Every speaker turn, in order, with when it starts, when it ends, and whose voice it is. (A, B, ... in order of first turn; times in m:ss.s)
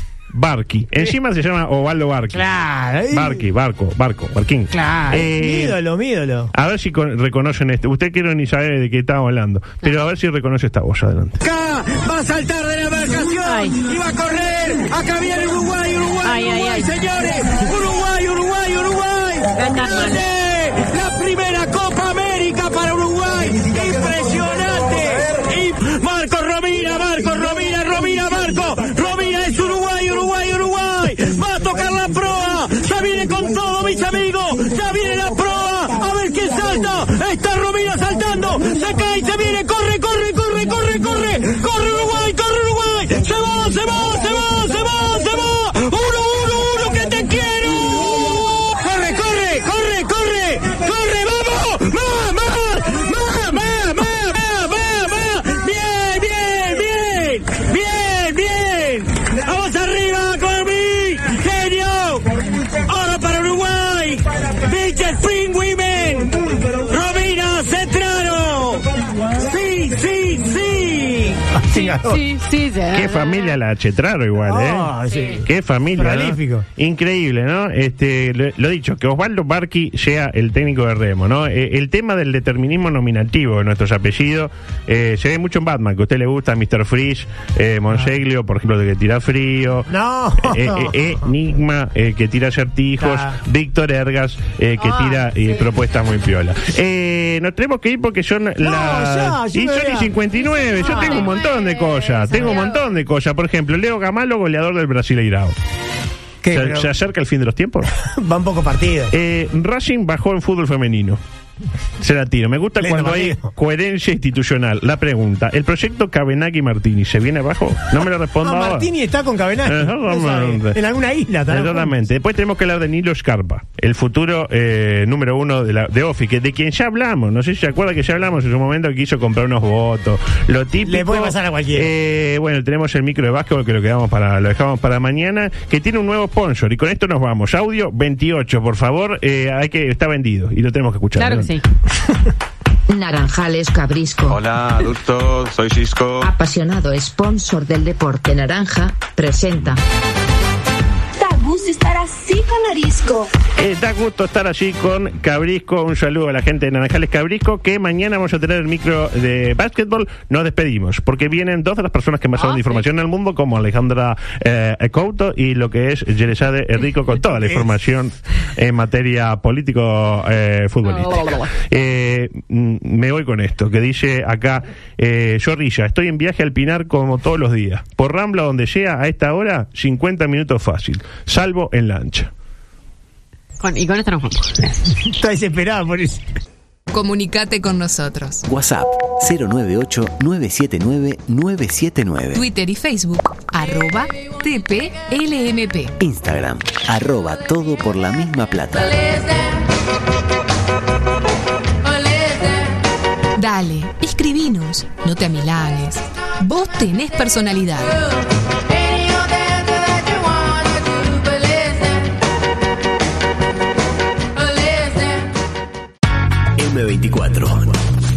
0:00.3-0:02.5 A
0:02.3-0:03.4 B
0:03.1-0:05.8 A
0:04.7-0:06.5 B
0:06.5-0:11.4 A
0:11.4-1:11.4 C
0:13.4-0:13.8 D
0:16.2-0:16.9 D
0:19.6-0:20.2 D
1:11.6-1:12.2 B
1:11.7-1:13.6 D
1:12.9-1:14.9 A
1:14.4-1:15.4 B
1:15.1-1:15.4 D
1:15.4-1:45.5 A
1:16.0-1:16.6 B
1:29.9-1:31.0 B
1:33.0-1:33.3 B
1:34.8-1:35.6 D
1:38.6-1:40.1 B
1:40.5-1:42.8 D
1:40.8-1:41.3 B
1:46.4-1:46.9 B
1:46.5-1:47.9 A
1:48.0-1:49.1 B
1:49.1-1:51.2 A
1:52.0-1:58.9 A
1:52.8-1:53.5 B
1:58.4-2:01.9 B
1:59.6-2:00.8 A
2:01.5-2:21.5 A
2:10.8-2:11.9 B
2:21.2-2:21.6 D
2:22.9-2:24.4 E
2:24.3-2:26.3 F
2:26.2-2:29.8 E
2:31.2-2:33.3 G
2:33.6-3:02.3 A
2:42.4-2:42.8 D
3:03.6-3:04.7 D
3:05.2-3:06.2 B
3:06.9-3:08.4 H
3:08.4-3:12.4 I
3:12.3-3:15.9 H
3:16.0-3:19.1 I
3:23.3-3:28.0 H
3:36.6-3:37.7 I